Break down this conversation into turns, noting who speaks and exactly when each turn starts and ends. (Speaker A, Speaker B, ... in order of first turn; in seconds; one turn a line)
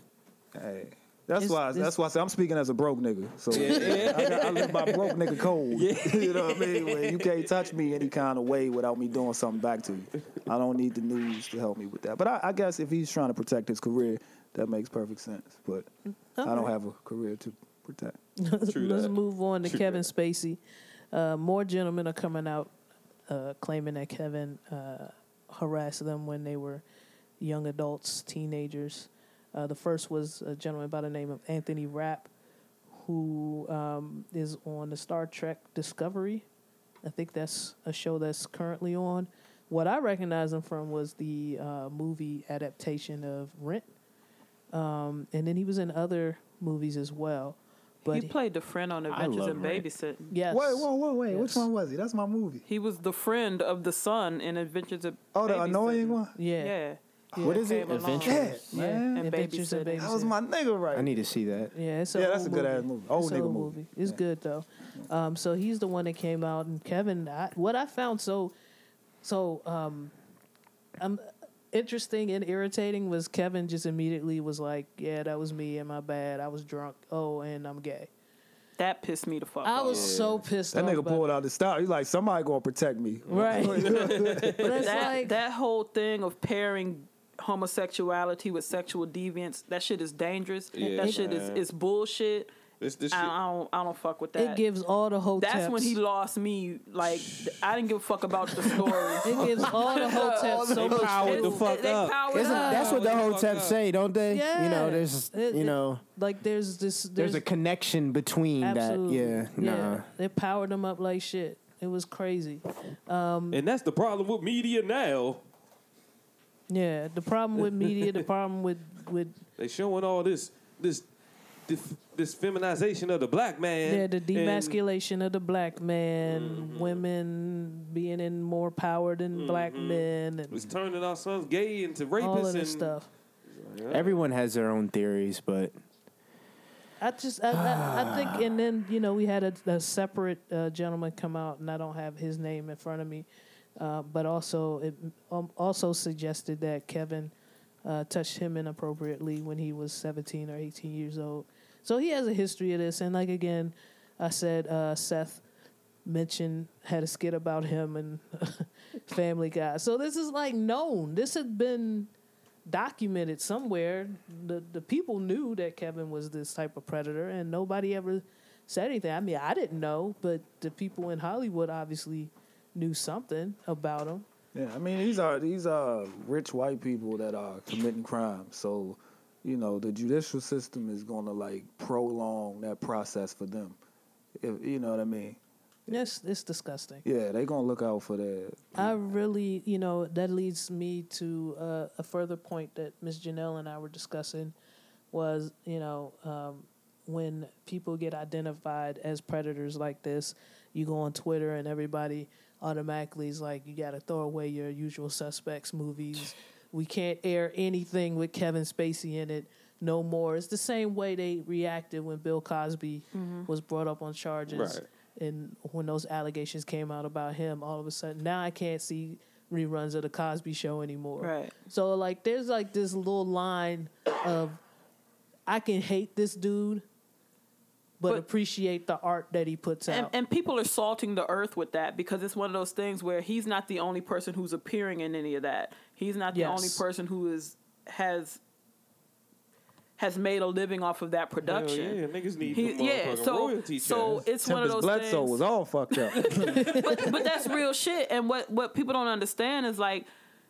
Speaker A: 0.5-15.9
Speaker B: 1.4-1.9
Speaker C: 3.5-7.5
Speaker B: 3.7-4.2
Speaker B: 16.4-16.7
Speaker A: 16.4-18.2
Speaker B: 18.4-20.6
Speaker C: 18.7-20.1
Speaker B: 21.1-22.7
Speaker B: 23.3-26.8
Speaker B: 27.4-32.3
Speaker B: 32.9-36.4
Speaker B: 37.0-43.9
Speaker B: 44.7-48.3
Speaker D: 48.0-50.3
Speaker E: 49.1-49.9
Speaker B: 50.3-51.7
Speaker A: 50.5-52.6
Speaker D: 52.6-57.0
Speaker A: 55.3-56.4
Speaker B: 56.4-56.8
Speaker A: 57.3-57.6
Speaker B: 57.3-60.3
Speaker E: 57.4-58.6
Speaker D: 57.5-58.4
Speaker A: 58.2-59.2
Speaker D: 59.1-60.1
Speaker A: 60.0-61.3
Speaker E: 60.9-61.7
Speaker B: 61.7-68.5
Speaker A: 62.1-64.2
Speaker B: 69.2-70.1
Speaker B: 71.0-78.1
Speaker D: 78.8-80.1
Speaker B: 79.6-81.3
Speaker C: 79.9-80.4
Speaker A: 80.7-84.8
Speaker C: 83.3-85.1
Speaker B: 83.3-85.3
Speaker D: 84.8-92.5
Speaker C: 90.7-91.6
Speaker B: 91.0-91.2
Speaker C: 92.8-93.3
Speaker D: 93.1-94.6
Speaker B: 94.4-96.0
Speaker D: 95.4-103.1
Speaker C: 97.0-97.6
Speaker B: 99.2-101.6
Speaker C: 99.2-103.8
Speaker E: 100.4-101.1
Speaker E: 102.3-106.0
Speaker B: 102.4-103.0
Speaker B: 104.3-107.4
Speaker E: 107.2-110.0
Speaker B: 108.6-113.6
Speaker C: 113.5-115.4
Speaker B: 116.7-119.4
Speaker C: 117.6-118.2
Speaker C: 119.6-121.0
Speaker C: 121.7-124.8
Speaker B: 123.8-130.7
Speaker C: 126.2-127.0
Speaker C: 129.3-133.0
Speaker B: 132.2-133.1
Speaker C: 133.5-134.2
Speaker E: 133.9-135.7
Speaker B: 137.0-147.3
Speaker E: 137.5-138.4
Speaker B: 147.8-155.4
Speaker B: 156.0-162.1
Speaker B: 162.7-174.2
Speaker A: 174.5-183.8
Speaker A: 184.4-185.4
Speaker B: 185.9-187.0
Speaker A: 187.0-188.9
Speaker B: 188.7-194.5
Speaker B: 195.1-224.6
Speaker D: 213.1-213.5
Speaker C: 214.5-214.8
Speaker D: 221.2-221.5
Speaker B: 225.5-226.8
Speaker B: 228.0-230.1
Speaker D: 229.9-238.4
Speaker B: 236.3-236.8
Speaker D: 240.0-242.0
Speaker C: 241.4-244.2
Speaker D: 242.5-245.4
Speaker A: 244.4-246.8
Speaker D: 246.3-250.1
Speaker C: 246.3-246.7
Speaker B: 246.6-247.2